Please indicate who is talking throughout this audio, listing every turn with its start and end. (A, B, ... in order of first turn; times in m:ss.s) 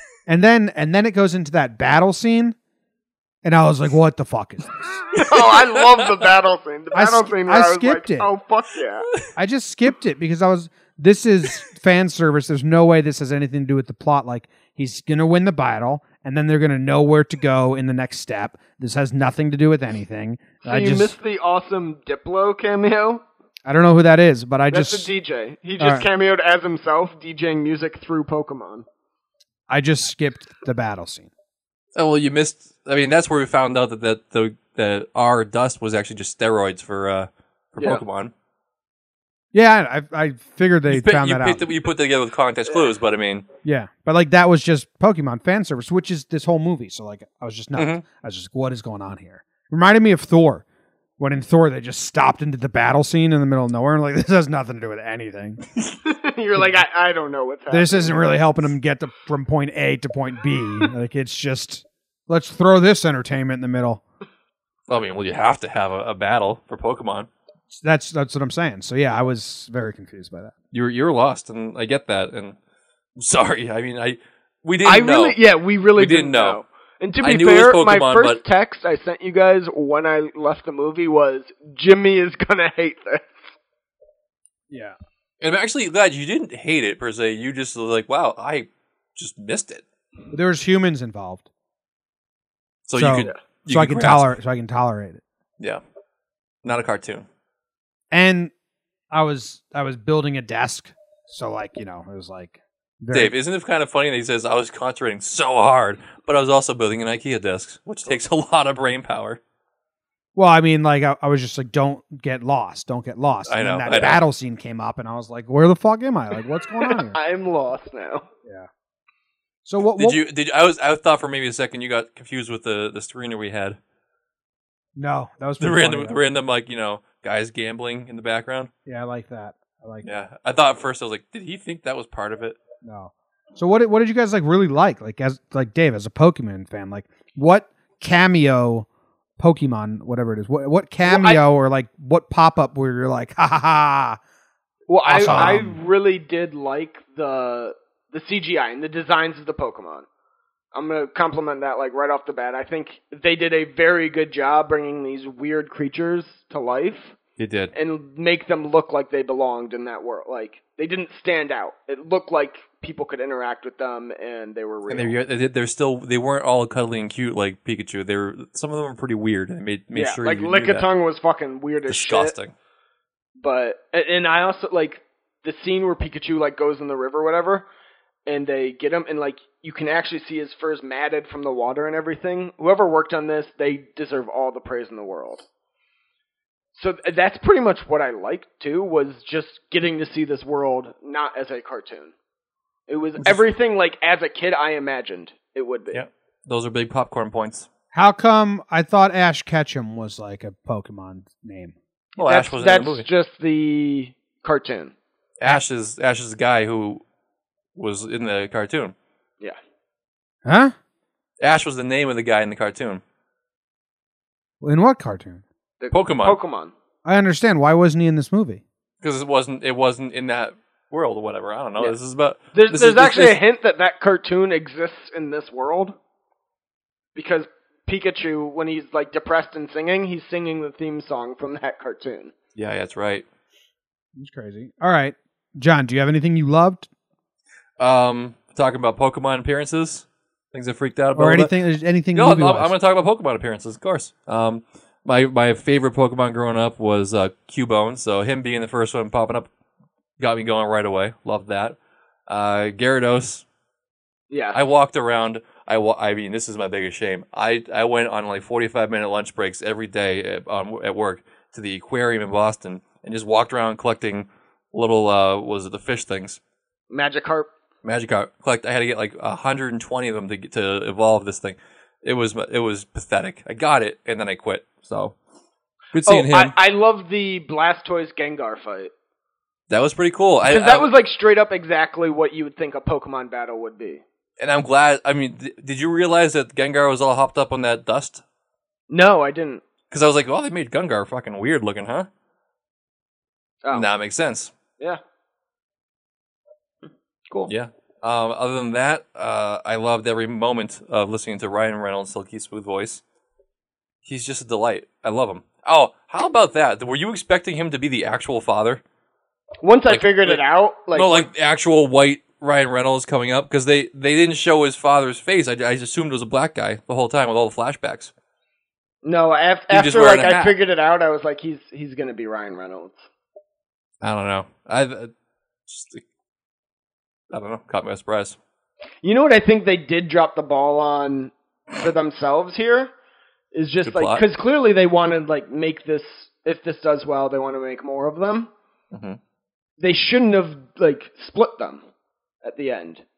0:00.3-0:02.6 A
0:03.4-0:05.1 A
0:05.1-0:09.1 B
0:05.2-0:06.2 C
0:06.9-0:08.3 A
0:09.4-0:21.2 A
0:20.6-0:23.2 B
0:23.7-0:25.1 A
0:24.7-0:28.9 B
0:25.8-0:26.1 A
0:29.7-0:31.3 A
0:32.0-0:38.3 C
0:37.8-0:38.0 B
0:39.5-0:41.7 A
0:40.9-0:43.5 C
0:43.6-0:50.6 A
0:47.8-0:48.0 C
0:51.2-0:55.6 A
0:56.0-0:58.3 B
0:57.7-1:04.0 A
1:04.9-1:07.3 C
1:07.7-1:10.5 A
1:10.7-1:12.6 C
1:13.2-1:15.4 C
1:14.8-1:23.4 B
1:16.0-1:16.6 C
1:17.2-1:18.4 C
1:24.7-1:25.0 A
1:25.4-1:29.8 C
1:30.3-1:31.5 A
1:32.9-1:34.3 C
1:33.0-1:35.2 A
1:36.6-1:37.3 C
1:38.1-1:38.5 A
1:39.1-1:43.3 A
1:43.1-1:49.4 C
1:50.4-1:57.2 A
1:53.5-1:54.2 C
1:56.8-1:58.3 B
1:59.6-2:00.2 A
2:00.0-2:03.8 C
2:05.0-2:06.2 A
2:05.6-2:08.7 C
2:08.9-2:10.1 A
2:10.0-2:12.6 C
2:12.8-2:18.9 A
2:19.4-2:24.2 A
2:21.0-2:21.4 B
2:24.9-2:30.1 B
2:25.0-2:25.8 A
2:25.3-2:25.6 C
2:30.7-2:37.2 B
2:37.4-2:37.7 C
2:37.7-2:45.2 B
2:44.9-2:50.9 C
2:49.9-2:52.3 B
2:51.9-2:52.6 C
2:53.4-2:57.7 B
2:58.3-3:05.4 B
3:06.8-3:12.1 B
3:12.9-3:16.0 B
3:15.9-3:17.7 C
3:17.9-3:21.8 A
3:22.2-3:24.9 B
3:22.2-3:23.1 C
3:25.4-3:27.0 C
3:27.8-3:29.0 C
3:30.4-3:30.7 A
3:31.4-3:33.0 C
3:34.6-3:35.4 A
3:35.8-3:36.7 B
3:35.9-3:36.4 C
3:37.0-3:38.6 A
3:39.0-3:43.4 C
3:42.5-3:46.0 B
3:47.2-3:52.3 B
3:52.6-3:53.2 C
3:54.2-3:56.9 A
3:57.8-4:01.5 C
4:01.2-4:02.7 A
4:02.1-4:09.5 C
4:10.2-4:13.4 C
4:14.3-4:14.6 B
4:14.5-4:26.4 C
4:26.9-4:27.5 B
4:27.8-4:35.2 C
4:35.9-4:36.5 C
4:36.1-4:38.9 B
4:39.7-4:40.9 C
4:40.5-4:44.0 B
4:44.4-4:48.2 C
4:48.9-4:49.6 B
4:49.9-4:52.1 C
4:53.7-4:54.5 C
4:57.5-5:03.0 C
5:04.0-5:08.8 C
5:09.6-5:11.3 B
5:09.9-5:10.4 C
5:10.9-5:18.1 C
5:19.0-5:23.0 B
5:19.7-5:20.5 C
5:24.0-5:25.1 C
5:25.7-5:26.0 C
5:27.3-5:28.4 C
5:29.0-5:32.9 B
5:33.5-5:38.5 B
5:33.8-5:34.2 C
5:38.9-5:39.2 C
5:39.8-5:41.8 B
5:42.4-5:43.0 B